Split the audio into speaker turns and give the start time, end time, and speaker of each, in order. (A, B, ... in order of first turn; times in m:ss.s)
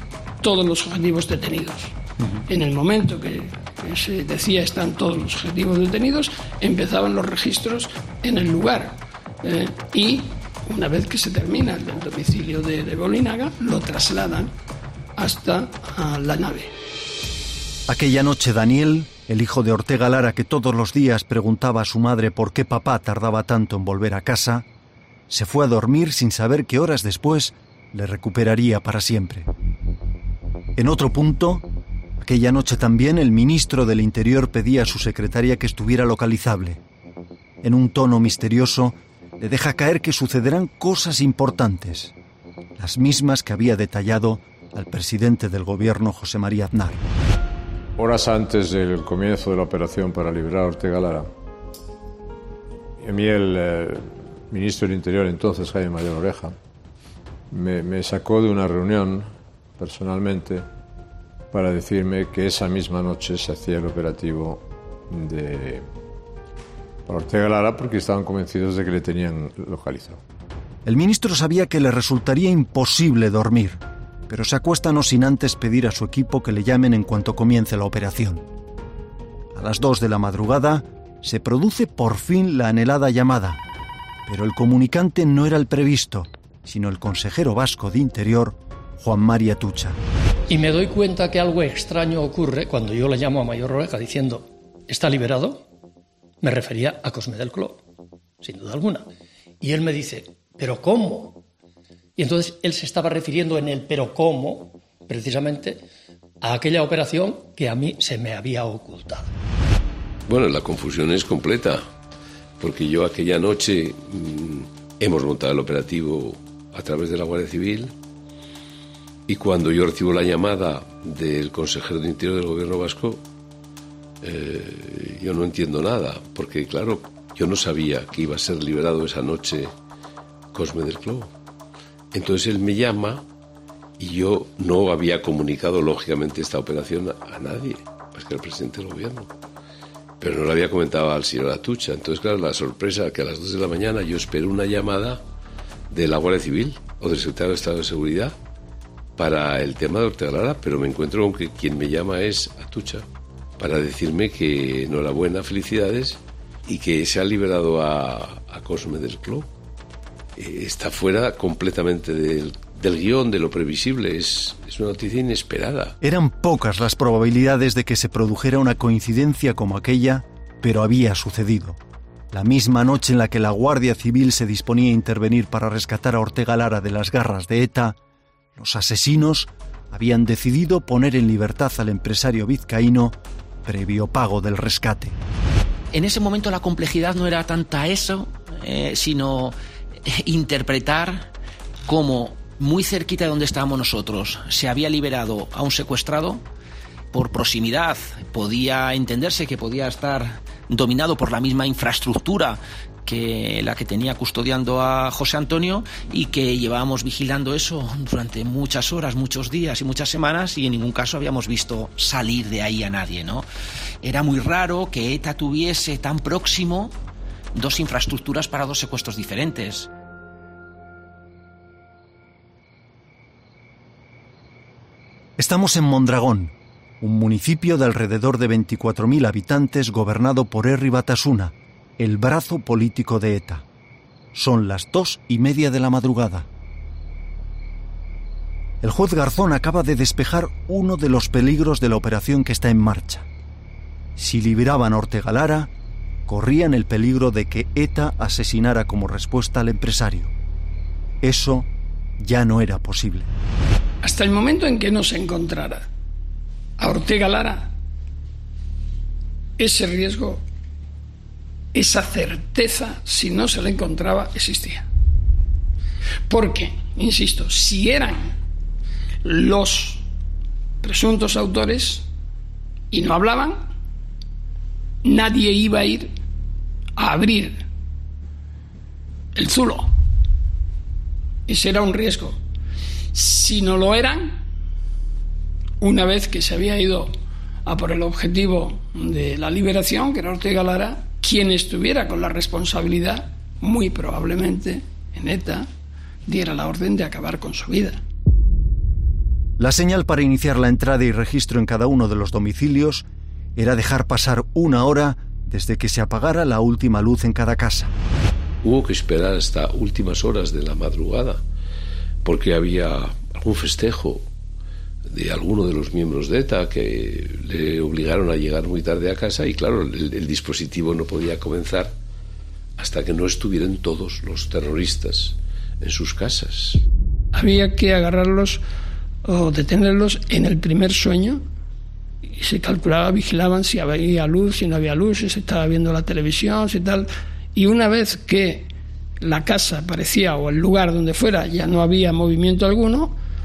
0:00.4-0:01.9 A
0:02.5-0:14.5 A
0:15.2-0:16.7 A
0:17.9-0:24.6 B
0:25.3-0:29.5 B
0:30.8-0:31.6 B
0:32.2-0:36.8 B
0:37.6-0:42.1 B
0:42.8-0:47.0 B
0:48.0-0:51.3 C
0:53.0-0:56.6 C
0:57.5-1:00.6 C
1:01.5-1:05.8 C
1:07.0-1:10.2 C
1:10.8-1:18.4 B
1:19.5-1:23.6 B
1:24.2-1:30.0 B
1:30.5-1:35.6 D
1:36.4-1:37.8 D
1:38.4-1:39.1 D
1:39.6-1:41.4 D
1:42.2-1:45.8 D
1:46.4-1:49.3 D
1:50.3-1:51.8 E
1:52.6-1:57.9 E
1:59.3-2:03.2 E
2:04.2-2:09.7 E
2:10.5-2:11.3 E
2:12.1-2:13.2 E
2:14.0-2:19.3 E
2:20.2-2:25.2 E
2:25.9-2:28.3 E
2:29.2-2:33.0 E
2:33.6-2:39.5 E
2:40.4-2:46.0 E
2:46.0-2:51.8 B
2:52.3-2:58.0 B
2:58.6-3:05.2 B
3:05.9-3:11.3 F
3:11.9-3:16.4 F
3:17.1-3:33.4 F
3:34.0-3:36.9 F
3:37.5-3:39.9 F
3:45.4-3:53.6 B
3:54.3-3:56.5 B
3:58.8-4:03.3 B
4:04.2-4:05.7 B
4:06.2-4:10.3 B
4:11.2-4:11.7 B
4:12.2-4:13.3 B
4:14.0-4:15.9 A
4:16.8-4:17.7 A
4:19.6-4:20.4 A
4:21.7-4:24.9 A
4:26.3-4:28.3 A
4:29.2-4:30.0 A
4:30.8-4:32.0 A
4:32.9-4:33.6 A
4:35.0-4:36.1 A
4:37.0-4:37.6 A
4:39.3-4:39.9 A
4:41.5-4:42.4 A
4:43.1-4:44.4 A
4:45.8-4:47.1 A
4:47.6-4:55.7 A
4:56.2-4:58.0 A
4:59.6-5:07.9 B
5:08.6-5:11.4 E
5:12.2-5:14.2 E
5:15.1-5:21.9 E
5:22.8-5:26.8 E
5:27.3-5:28.6 A
5:29.2-5:31.4 A
5:32.3-5:38.7 A
5:39.2-5:43.2 A